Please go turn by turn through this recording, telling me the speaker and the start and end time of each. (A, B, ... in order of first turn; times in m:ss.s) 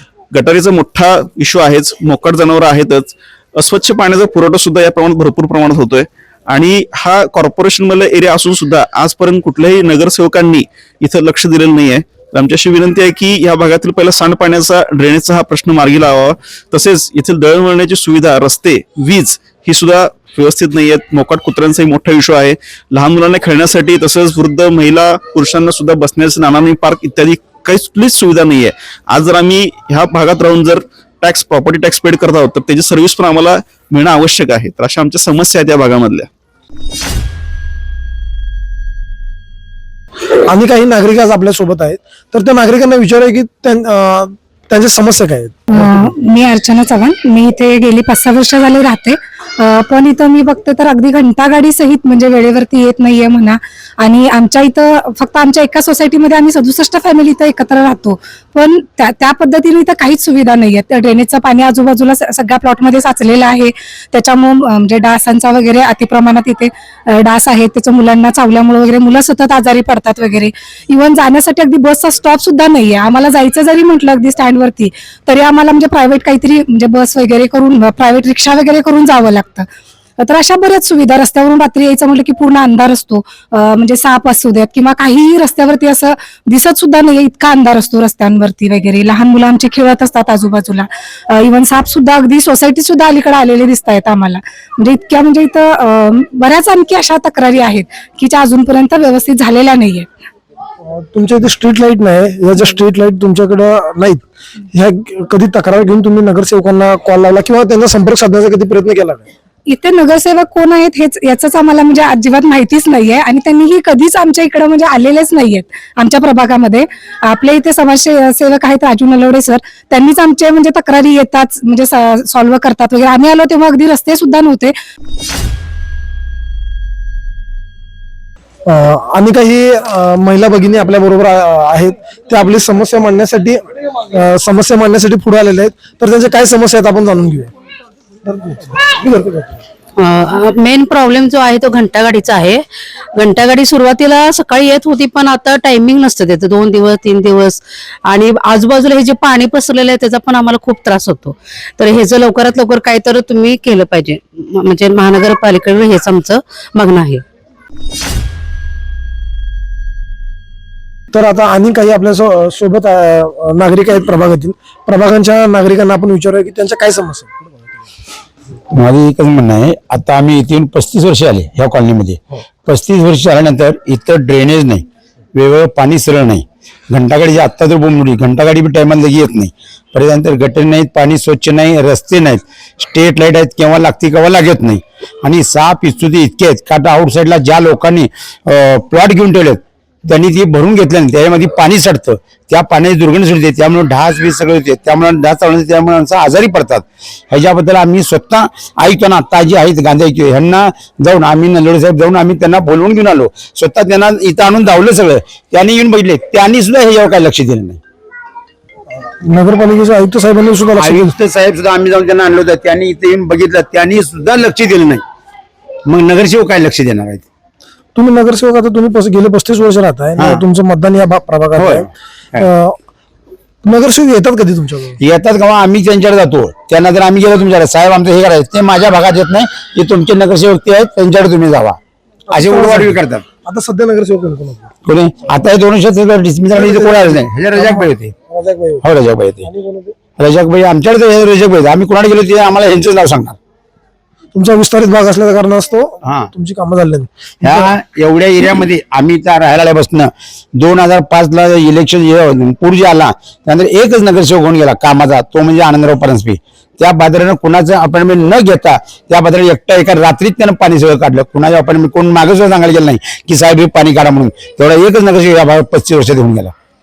0:00.3-0:36.3 A
0:40.5-0:46.1 B
0:45.7-1:19.6 C
1:20.2-1:40.1 C
1:40.8-1:49.3 B
1:49.7-2:04.7 C
2:08.6-2:17.5 B
2:18.2-2:19.6 B
2:20.0-2:37.2 D
2:41.1-2:47.4 B
2:48.7-3:27.8 E
3:29.1-3:31.1 B
3:30.8-3:35.0 E
3:35.9-3:37.2 E
3:38.0-3:42.8 B
3:41.6-3:42.4 E
3:43.6-3:45.0 B
3:45.0-3:51.8 E
3:52.3-3:54.7 B
3:52.3-3:53.2 E
3:54.8-3:58.1 E
3:56.5-3:58.8 B
3:58.8-3:59.4 E
3:59.4-4:00.0 B
4:00.2-4:03.4 E
4:04.3-4:07.7 B
4:07.4-4:26.5 E